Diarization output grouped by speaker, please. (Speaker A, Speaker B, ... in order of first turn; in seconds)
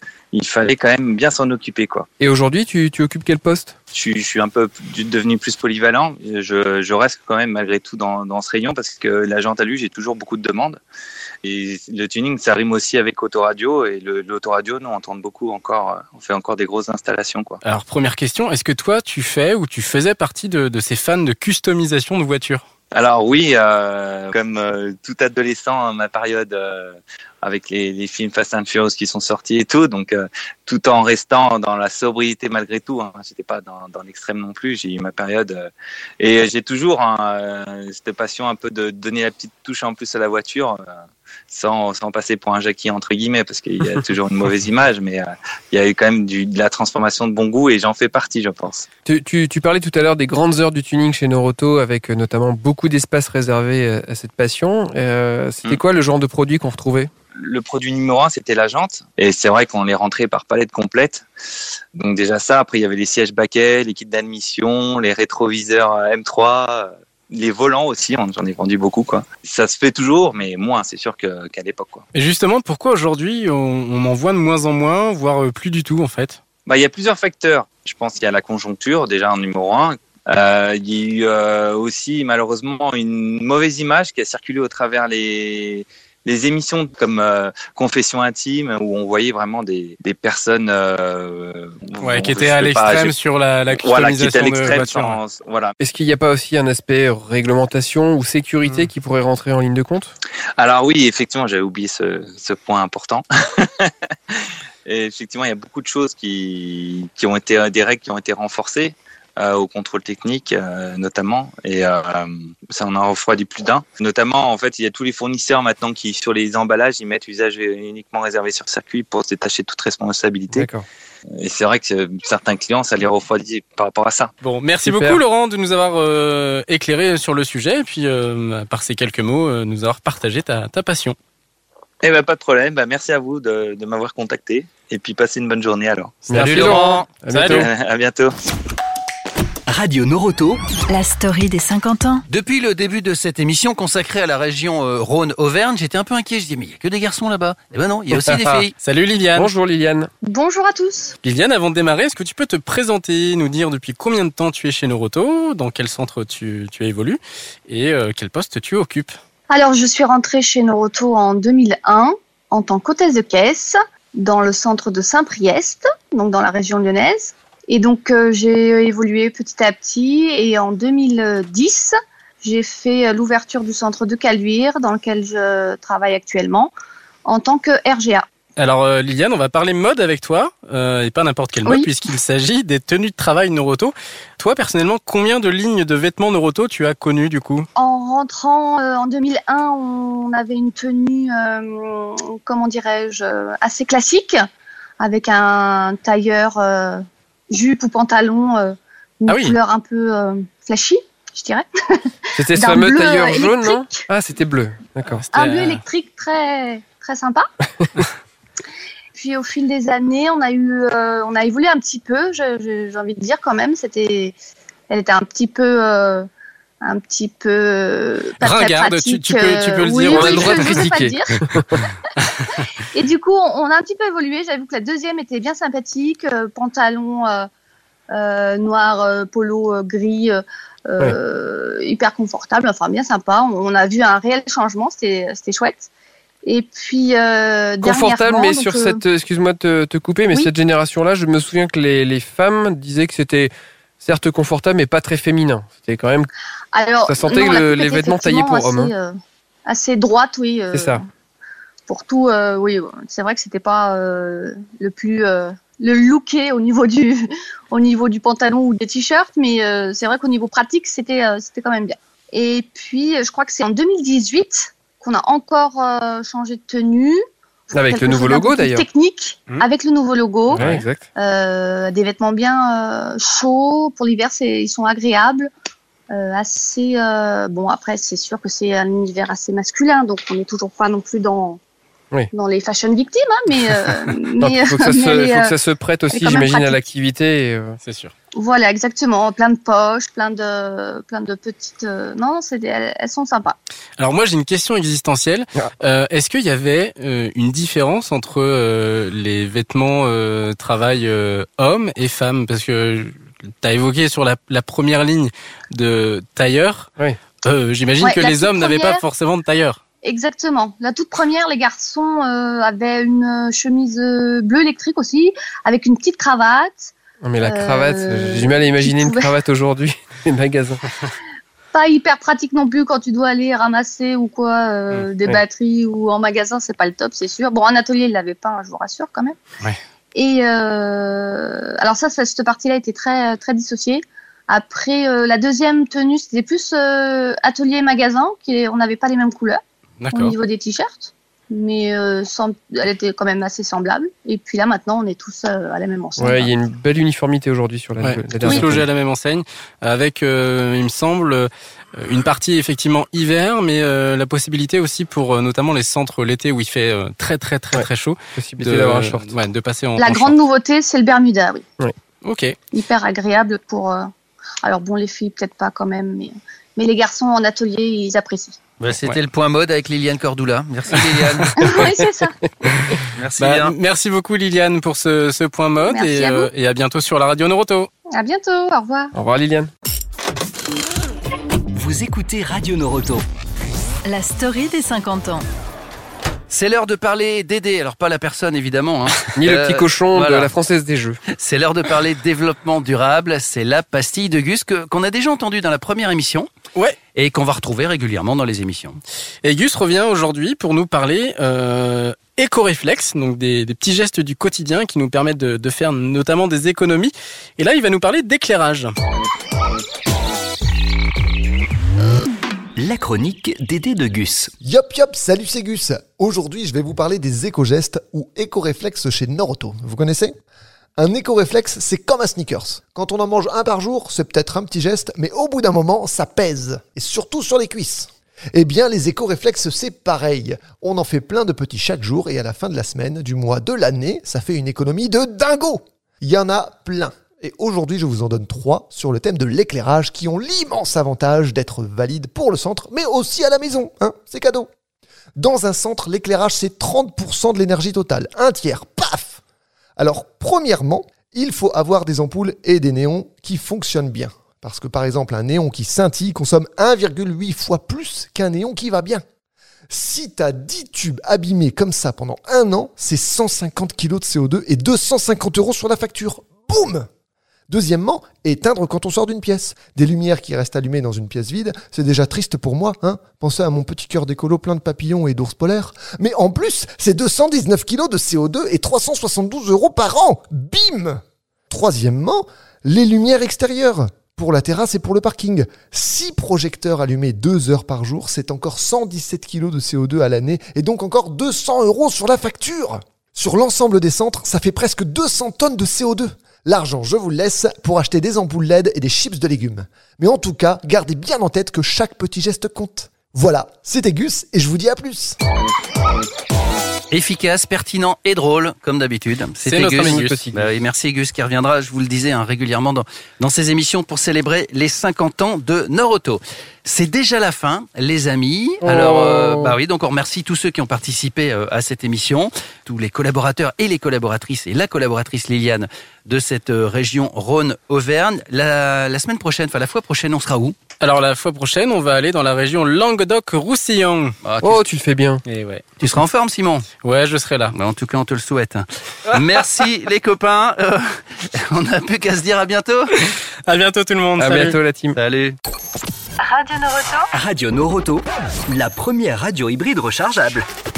Speaker A: 0.3-2.1, 3.9-10.8, 11.4-17.6, 22.9-40.9, 41.5-48.9, 57.4-61.3, 62.0-72.0, 76.7-93.1, 93.7-95.8, 100.6-120.7, 121.4-124.3, 132.0-136.2, 137.4-138.3
Speaker B: 2.2-3.7, 49.1-57.1, 95.8-100.1, 120.5-120.9, 124.8-125.2, 136.3-137.7, 148.1-148.7, 149.3-150.1, 202.4-205.2, 220.1-221.8, 237.8-246.3, 247.1-248.9, 250.7-251.0, 267.7-268.9, 270.5-271.1, 284.4-287.8, 317.2-320.8, 346.2-348.9, 357.7-359.4, 379.1-379.7, 389.4-391.2, 509.9-510.7, 518.8-519.8, 534.6-535.4, 544.4-545.2
Speaker C: 17.6-22.6, 72.1-76.4, 92.0-95.2, 124.4-131.2, 136.3-136.8, 137.3-137.7, 148.8-149.5, 151.2-159.2, 178.6-187.7, 199.3-199.6, 205.1-205.8, 218.4-220.8, 270.5-270.8, 287.8-288.1, 294.0-309.8, 340.0-340.4, 348.0-360.4, 362.2-362.6, 371.0-371.7, 373.4-377.9, 399.4-408.9, 509.6-510.4, 531.0-534.4, 535.5-535.9, 537.0-537.8, 543.2-544.8
Speaker D: 136.3-137.2, 142.3-148.7, 368.8-371.6, 373.1-373.7, 386.5-390.5, 391.3-396.5, 397.1-399.0, 507.1-530.8, 534.4-534.9, 536.0-536.9, 537.7-543.1, 545.1-545.6
Speaker E: 139.7-140.6, 381.8-383.2, 412.8-414.5, 547.3-550.6
Speaker F: 140.9-142.2, 384.1-385.5, 546.4-547.3
Speaker G: 150.2-151.2, 159.5-176.7, 177.2-178.3, 181.7-181.9, 187.8-194.5, 195.0-204.1, 205.3-207.5, 209.1-214.3, 214.9-216.3, 216.8-221.4, 222.9-227.5, 228.1-235.9, 236.4-239.0, 246.7-251.0, 251.9-267.2, 267.7-270.6, 271.2-275.5, 276.1-281.6, 282.3-285.5, 286.1-286.8, 288.4-293.6, 308.0-309.0, 310.0-319.3, 321.7-329.4, 330.1-339.6, 340.1-346.5, 360.0-361.6, 362.7-364.1, 364.6-368.6, 371.6-372.3, 375.9-376.5, 378.1-379.1
Speaker H: 414.6-420.3, 421.0-444.7, 445.4-449.4, 450.0-459.2, 459.9-467.1, 467.7-505.4